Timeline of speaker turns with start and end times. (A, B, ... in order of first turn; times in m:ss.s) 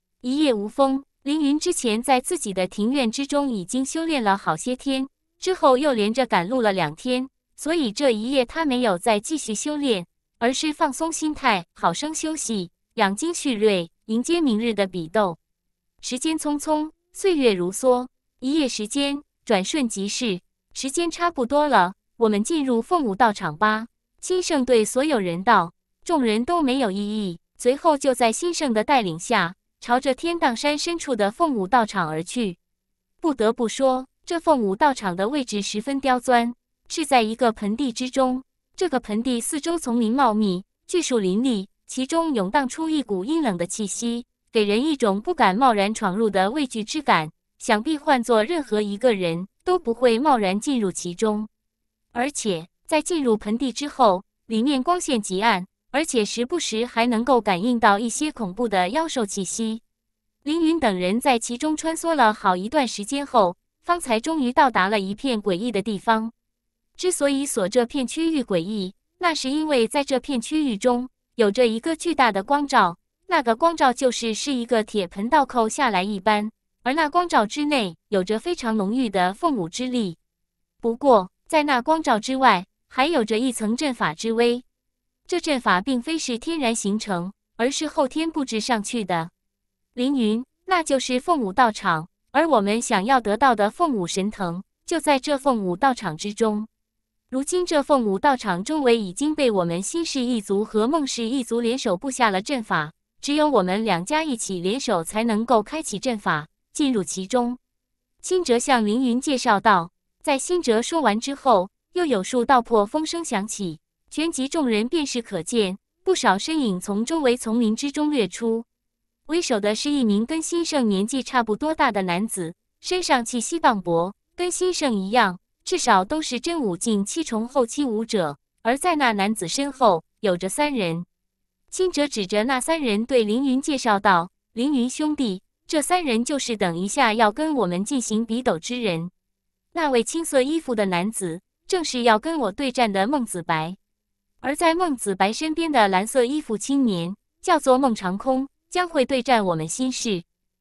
0:00.2-0:15.4 A
0:16.0-0:32.6 A
0:33.2-0:51.5 A
0:52.1-0:59.8 A
1:00.4-1:06.3 A
1:07.0-1:20.2 A
1:20.8-1:24.6 A
1:25.3-1:29.3 A
1:30.0-1:36.7 A
1:37.3-1:47.6 A
1:48.2-1:58.7 A
1:59.3-2:11.1 A
2:11.7-2:19.1 A
2:19.7-2:23.8 A
2:24.4-2:30.2 A